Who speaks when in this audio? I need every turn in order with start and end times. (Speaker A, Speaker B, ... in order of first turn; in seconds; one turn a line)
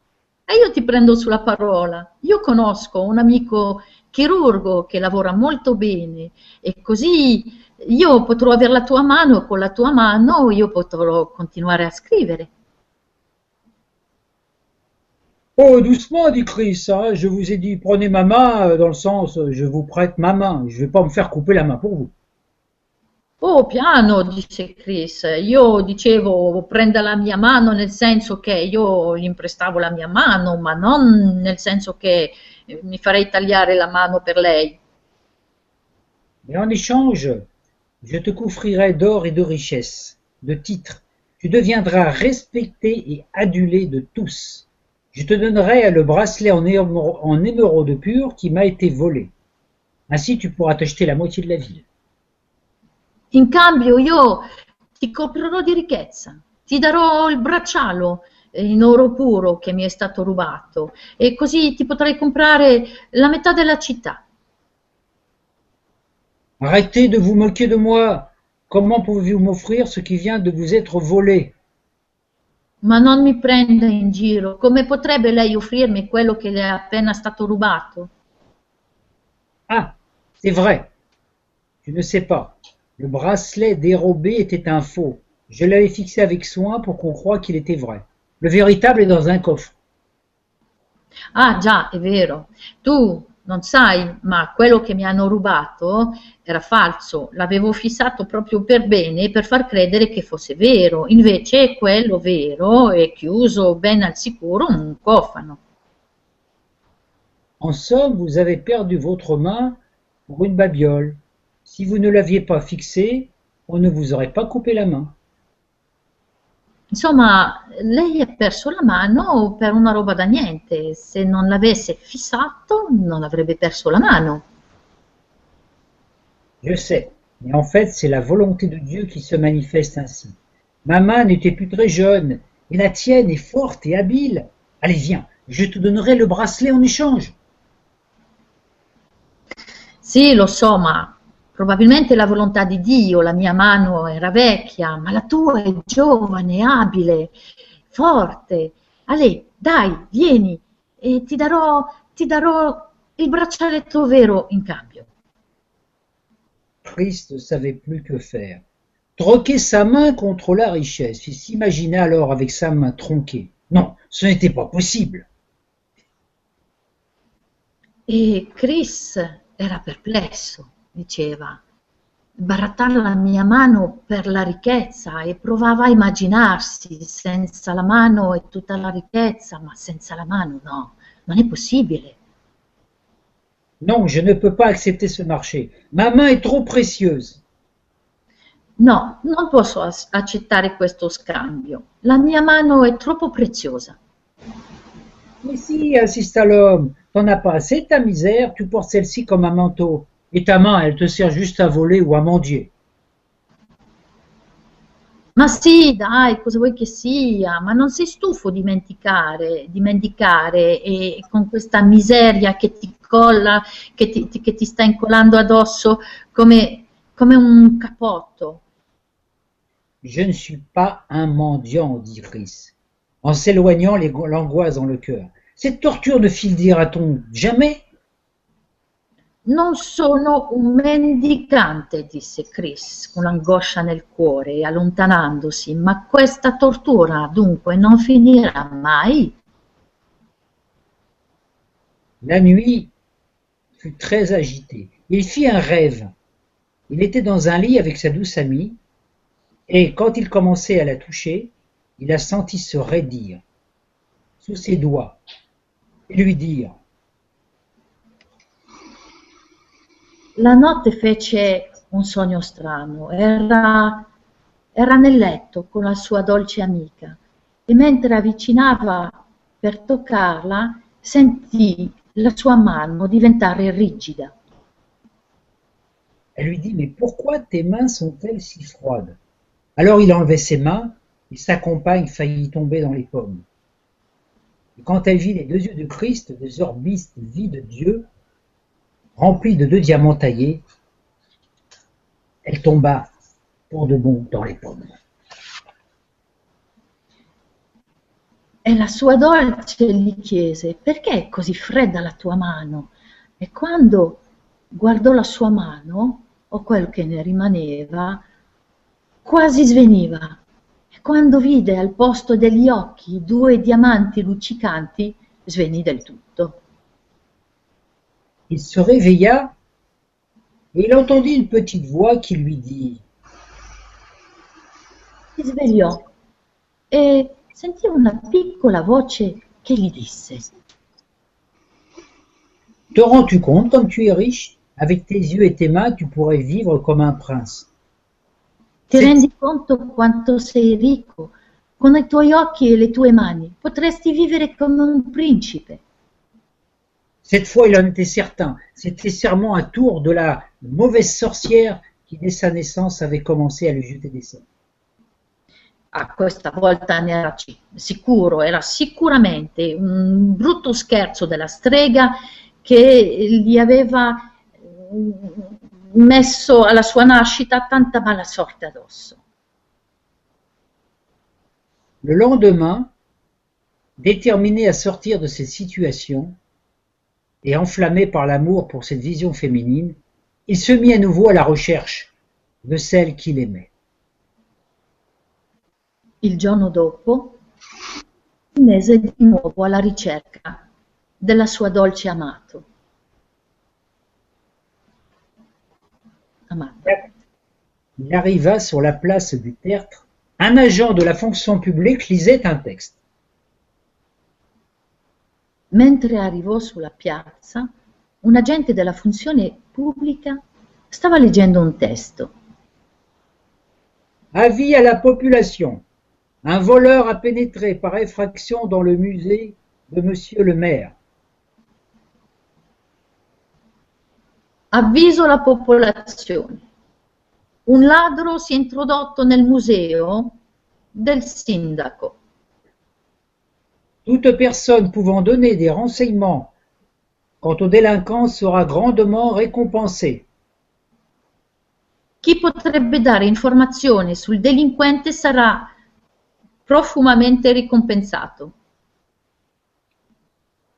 Speaker A: 0.5-12.5
Speaker B: 15.6-22.1
Speaker A: 23.4-34.8
Speaker B: 36.5-37.5
Speaker B: 38.0-49.3
Speaker B: 50.1-51.9
Speaker A: 53.3-54.5
Speaker A: 55.0-64.2
Speaker B: 66.6-71.5
Speaker A: 72.8-78.1
Speaker B: 79.7-80.9
Speaker B: 81.8-89.8
Speaker A: 91.3-105.6
Speaker B: 107.6-115.1
Speaker A: 116.9-124.4
Speaker B: 126.6-137.4
Speaker A: 140.0-147.3
Speaker A: 147.9-155.1
Speaker B: 156.8-158.6
Speaker B: 159.2-165.3
Speaker A: 168.1-171.6
Speaker A: 172.4-182.2
Speaker B: 183.8-187.4
Speaker A: 188.8-194.0
Speaker B: 195.4-202.7
Speaker A: 205.4-218.6
Speaker B: 220.0-227.8
Speaker A: 229.5-239.4
Speaker B: 242.2-242.9
Speaker B: 243.8-246.1
Speaker B: 246.9-248.8
Speaker B: 249.7-253.4
Speaker B: 254.4-255.2
Speaker B: 256.1-256.8
Speaker A: 260.4-264.1
Speaker A: 264.8-274.3
Speaker B: 276.4-279.2
Speaker B: 279.8-283.4
Speaker B: 284.8-288.1
Speaker B: 289.2-290.6
Speaker B: 292.4-293.1
Speaker B: 293.7-294.9
Speaker A: 298.6-304.2
Speaker A: 304.7-308.2
Speaker A: 309.2-310.4
Speaker A: 310.9-316.6
Speaker B: 318.5-319.5
Speaker B: 320.7-323.0
Speaker A: 325.4-326.0
Speaker A: 326.9-330.5
Speaker B: 332.9-337.7
Speaker A: 338.9-345.8
Speaker B: 338.9-339.2
Speaker B: 347.2-354.4
Speaker A: 355.9-369.2
Speaker B: 372.0-372.9
Speaker B: 374.0-376.4
Speaker B: 377.4-382.1
Speaker B: 382.6-383.7
Speaker A: 386.2-387.4
Speaker A: 388.6-390.6
Speaker A: 391.2-392.6
Speaker A: 396.5-397.1
Speaker B: 398.0-403.0
Speaker A: 405.7-407.7
Speaker A: 408.2-410.4
Speaker A: 410.9-412.3
Speaker B: 414.3-415.8
Speaker B: 416.4-420.9
Speaker A: 424.7-426.6
Speaker A: 427.7-430.4
Speaker A: 430.9-432.2
Speaker B: 434.1-436.5
Speaker B: 437.4-440.3
Speaker A: 442.2-445.7
Speaker A: 446.7-448.5